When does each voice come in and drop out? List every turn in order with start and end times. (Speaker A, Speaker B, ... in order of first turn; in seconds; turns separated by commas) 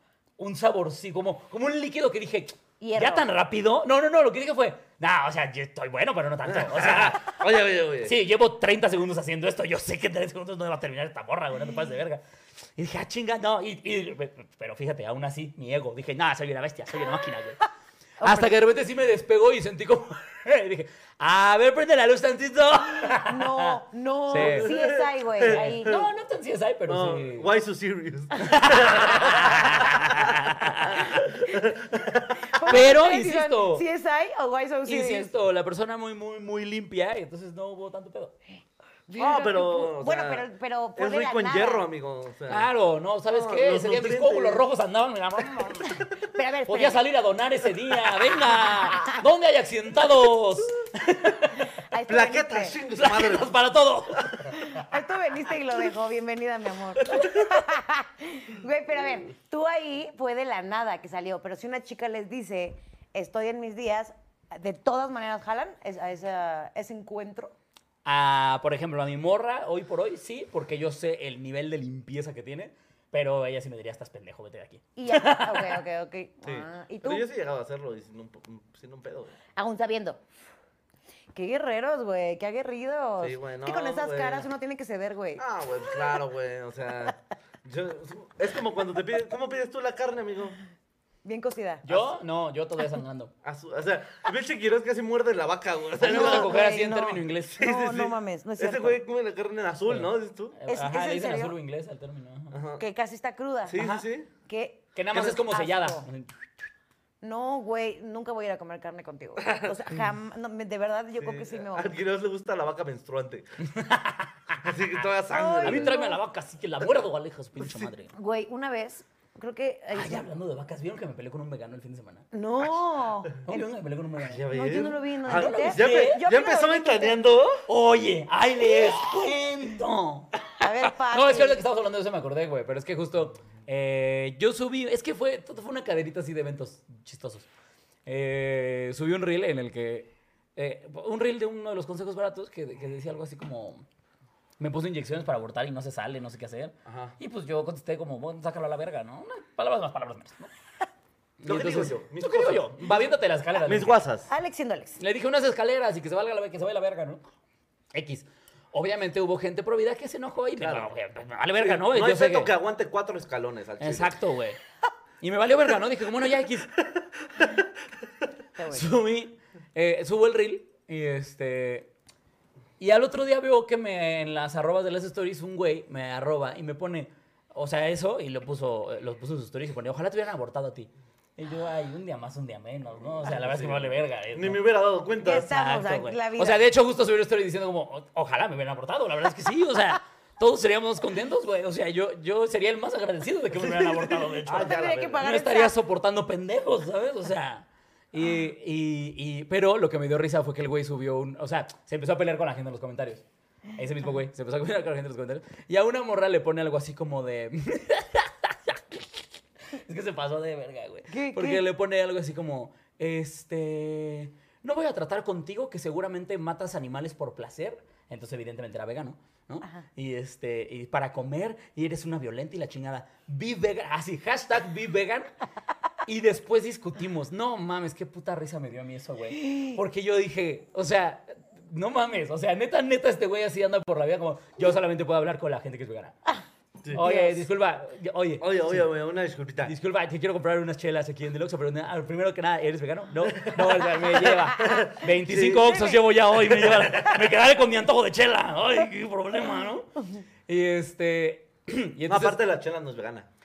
Speaker A: 0.4-7.4, Speaker B: 2.8-3.2, Speaker C: 6.5-8.2, Speaker A: 8.0-12.2, Speaker A: 12.8-17.6, Speaker B: 18.2-18.6, Speaker A: 18.2-23.8, Speaker B: 23.1-26.0, Speaker A: 24.3-24.7, Speaker C: 24.3-26.0, Speaker A: 25.5-27.5, Speaker C: 26.9-32.9, Speaker A: 28.4-31.3, Speaker B: 32.5-35.3, Speaker A: 32.7-33.8, Speaker A: 34.9-38.3, Speaker B: 39.1-41.9, Speaker C: 39.2-40.5, Speaker C: 41.0-42.7, Speaker A: 42.5-46.1, Speaker C: 43.3-44.6, Speaker B: 46.2-47.0, Speaker A: 46.7-51.7, Speaker B: 51.9-52.8, Speaker C: 52.1-53.5, Speaker A: 53.0-54.6, Speaker C: 54.1-54.5, Speaker B: 54.5-67.5, Speaker A: 68.0-75.8, Speaker B: 75.0-77.2, Speaker C: 76.4-79.3, Speaker B: 79.6-80.2, Speaker B: 81.3-85.4, Speaker C: 83.2-84.5, Speaker C: 85.4-90.6, Speaker B: 91.2-91.9, Speaker A: 91.8-93.3, Speaker C: 93.4-96.6, Speaker A: 96.0-97.6, Speaker B: 96.0-99.0, Speaker C: 97.5-100.6, Speaker A: 99.9-102.6, Speaker B: 100.7-101.5, Speaker C: 102.5-102.8, Speaker B: 102.8-103.9, Speaker C: 103.7-104.3, Speaker A: 103.8-104.0, Speaker B: 104.5-106.1, Speaker A: 105.0-106.5, Speaker B: 107.2-111.9, Speaker C: 109.5-109.7, Speaker C: 111.2-113.5, Speaker A: 113.6-114.6, Speaker C: 114.6-115.9, Speaker B: 115.3-116.2, Speaker A: 115.6-118.1, Speaker C: 117.6-117.9, Speaker B: 118.1-120.3, Speaker A: 119.9-122.3, Speaker B: 122.3-123.6, Speaker A: 123.5-124.5, Speaker C: 124.2-127.6, Speaker B: 124.5-127.2, Speaker A: 125.2-126.2, Speaker A: 127.7-137.5, Speaker B: 130.6-131.6, Speaker A: 138.1-143.8, Speaker A: 144.6-150.5, Speaker C: 146.9-147.2, Speaker A: 151.4-153.9, Speaker C: 151.5-153.1, Speaker C: 153.6-154.3, Speaker B: 154.3-155.0, Speaker A: 155.0-157.2, Speaker A: 157.9-162.5, Speaker C: 160.6-160.9, Speaker C: 161.6-164.1, Speaker A: 163.8-164.6, Speaker A: 165.2-166.7, Speaker B: 168.6-168.9, Speaker A: 168.7-171.9, Speaker A: 172.8-184.6, Speaker C: 183.2-185.5, Speaker B: 185.2-186.6, Speaker A: 185.3-203.2, Speaker C: 193.6-195.3, Speaker B: 194.6-195.7, Speaker A: 203.8-225.3, Speaker B: 211.1-211.6, Speaker A: 226.1-236.2, Speaker A: 236.9-238.9, Speaker B: 237.0-237.4, Speaker C: 238.4-239.7, Speaker A: 239.6-252.4, Speaker C: 243.4-243.8, Speaker C: 244.6-245.8, Speaker B: 245.7-246.0, Speaker C: 246.3-247.1, Speaker C: 252.1-253.3